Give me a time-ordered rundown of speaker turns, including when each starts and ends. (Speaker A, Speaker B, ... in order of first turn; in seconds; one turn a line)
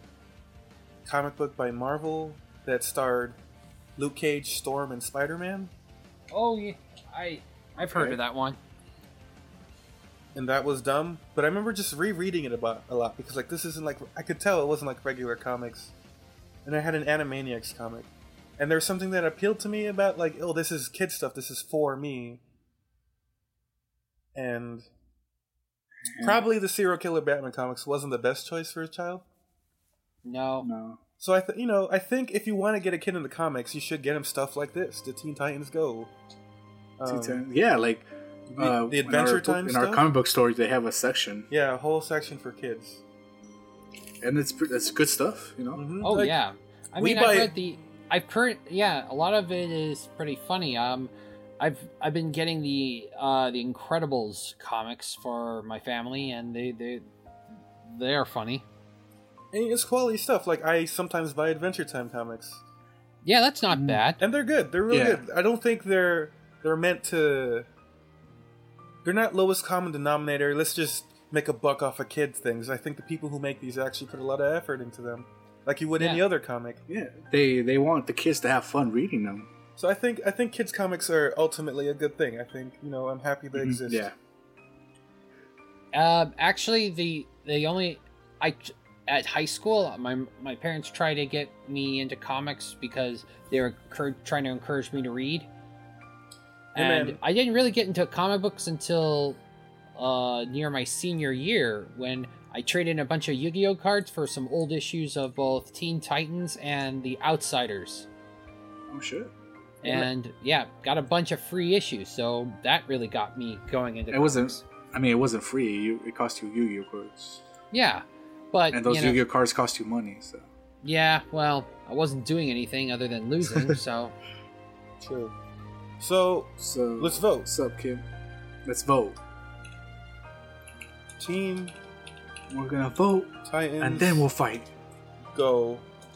Speaker A: 1.1-3.4
Speaker A: 4.0-5.7
Speaker B: 6.3-8.6
Speaker A: 7.8-8.2
Speaker A: 10.3-15.9
Speaker A: 16.6-22.4
Speaker A: 24.3-24.9
Speaker C: 26.1-26.4
Speaker A: 26.2-29.2
Speaker B: 30.2-30.7
Speaker C: 30.6-31.0
Speaker A: 31.2-36.1
Speaker A: 37.0-37.4
Speaker C: 37.0-41.5
Speaker A: 38.5-40.0
Speaker A: 41.5-43.0
Speaker C: 44.2-45.9
Speaker A: 45.7-46.4
Speaker B: 46.0-57.0
Speaker A: 47.0-47.5
Speaker B: 57.9-58.6
Speaker A: 59.5-62.6
Speaker B: 63.2-64.2
Speaker C: 63.7-64.0
Speaker A: 64.2-67.7
Speaker C: 64.9-65.2
Speaker A: 69.0-76.8
Speaker B: 76.0-76.2
Speaker C: 76.9-79.5
Speaker A: 79.8-84.1
Speaker C: 83.5-84.1
Speaker B: 85.9-95.5
Speaker B: 96.7-99.4
Speaker A: 96.7-97.2
Speaker B: 100.0-108.1
Speaker C: 108.9-109.3
Speaker C: 109.8-110.1
Speaker B: 109.8-114.6
Speaker C: 114.1-117.4
Speaker B: 117.7-119.2
Speaker C: 118.7-120.5
Speaker B: 120.8-124.1
Speaker A: 125.0-125.3
Speaker A: 126.0-127.5
Speaker C: 126.6-128.0
Speaker C: 128.7-129.2
Speaker A: 131.2-131.7
Speaker C: 132.5-134.7
Speaker A: 133.4-134.3
Speaker A: 135.3-135.8